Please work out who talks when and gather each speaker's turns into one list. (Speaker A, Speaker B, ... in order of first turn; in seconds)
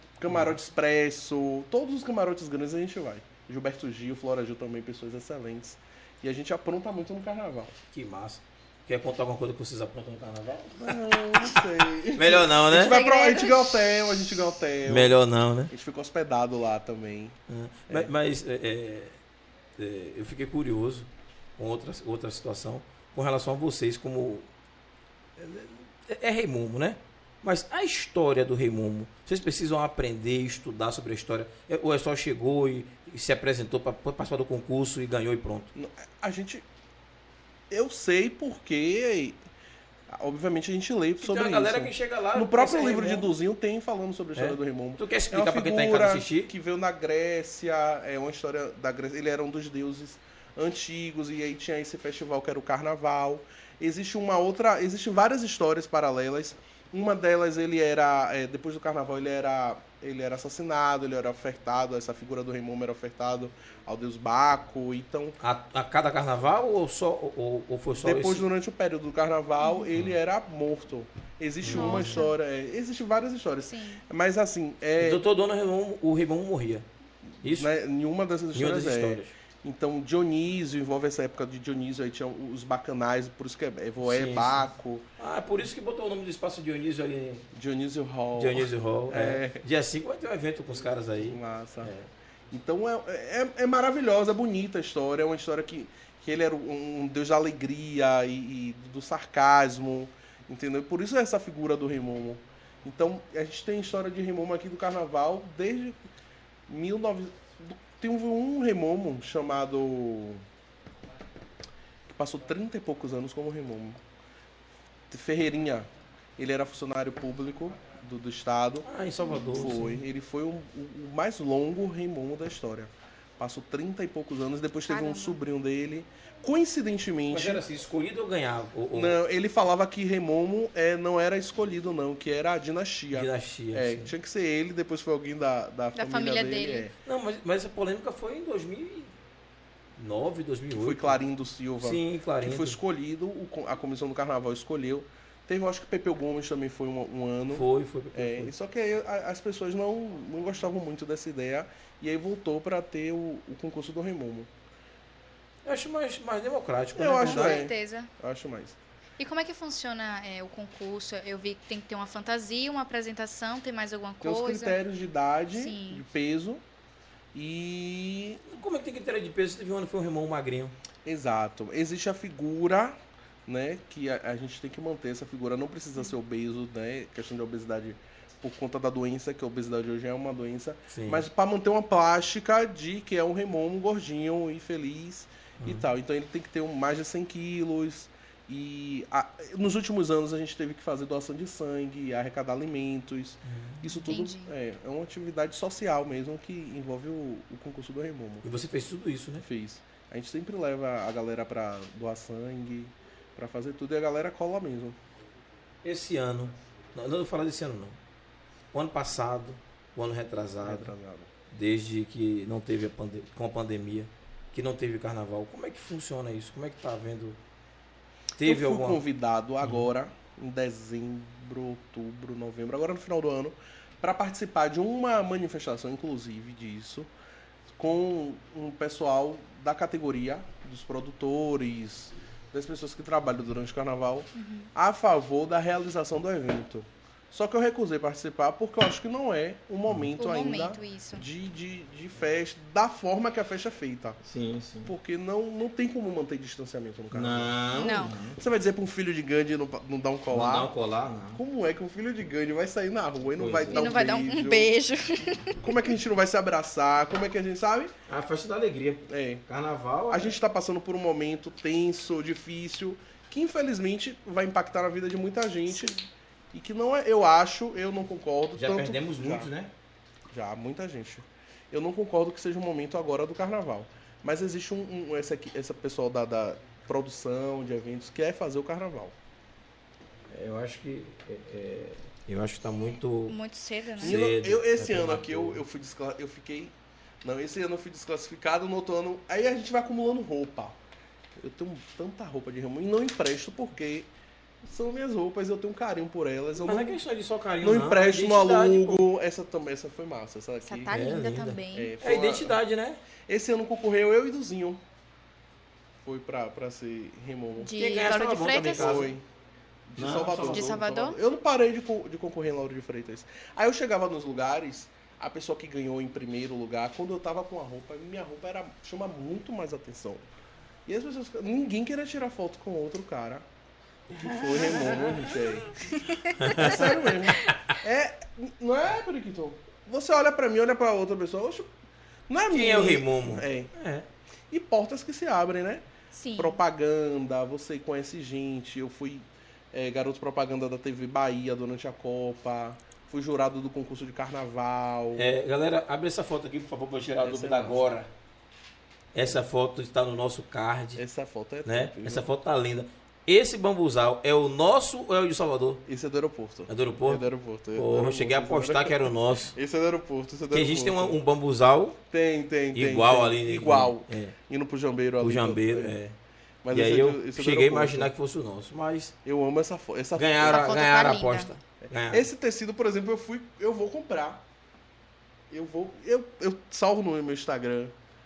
Speaker A: 0.2-7.7, 10.8-15.2, 15.7-17.4, 35.8-36.6, 37.7-39.4, 40.1-65.4, 68.0-75.2, 77.4-85.1, 87.5-89.6, 91.2-91.9, 92.5-106.0, 106.7-110.4, 112.1-114.0, 115.1-127.7, 128.9-136.9, 140.8-154.5, 156.9-158.8, 164.2-166.6, 167.3-168.4, 171.1-198.5, 199.4-205.0, 210.6-211.3, 218.4-227.1, 227.8-244.2, 244.8-250.7, 251.3-254.7, 255.6-257.9, 259.1-259.4, 260.1-266.0, 266.5-269.5, 270.3-279.1, 284.0-290.8, 291.4-294.1, 294.6-297.0, 297.6-301.0, 301.7-302.6, 303.3-304.8, 306.0-307.9, 308.6-309.2, 309.9-320.3, 320.9-323.4, 324.2-325.8, 326.5-331.7, 332.3-333.7, 334.5-345.3, 347.2-347.9, 351.0-352.3, 355.9-361.2, 362.1-366.0, 366.6-368.1, 369.2-370.9, 371.9-374.4, 375.5-377.9
Speaker B: 0.3-0.6, 7.9-13.0, 14.9-15.7, 17.5-19.2, 19.8-24.5, 25.4-35.7, 41.2-43.3, 44.4-46.5, 65.4-68.5, 71.6-72.2, 75.0-76.9, 77.4-77.7, 78.5-79.3, 84.0-87.5, 88.4-92.1, 118.8-120.0, 127.3-129.2, 133.1-134.1, 137.1-139.1, 140.0-141.2, 141.8-142.8, 147.5-148.5, 155.7-157.6, 168.5-170.7, 180.9-181.3, 185.6-185.9, 193.4-193.9, 198.4-199.5, 205.8-208.0, 208.7-210.9, 211.5-217.4, 218.4-219.0, 219.6-219.9, 239.9-240.1, 244.2-244.9, 247.1-248.4, 250.3-251.4, 253.4-253.9, 258.1-260.4, 268.6-269.7, 280.3-283.4, 284.0-285.6, 296.6-299.0, 300.9-303.0, 307.8-309.1, 310.0-310.7, 324.1-325.3, 326.4-327.1, 332.5-334.1, 345.2-348.1, 349.1-351.0, 351.6-355.8, 356.7-359.6, 360.5-362.0, 362.7-364.4, 365.2-366.1, 366.7-369.1, 370.2-372.3
Speaker C: 12.8-13.8, 71.7-72.4, 73.7-74.0, 124.9-125.4, 135.9-136.9, 157.2-158.1, 159.2-164.8, 165.5-166.0, 194.1-194.5, 234.4-234.7, 240.2-241.2, 247.7-248.1, 253.7-255.7, 265.7-266.1, 283.3-284.2, 300.6-301.9, 307.6-309.1, 310.3-311.2, 325.9-326.7, 327.3-327.8, 336.1-336.6, 370.5-371.5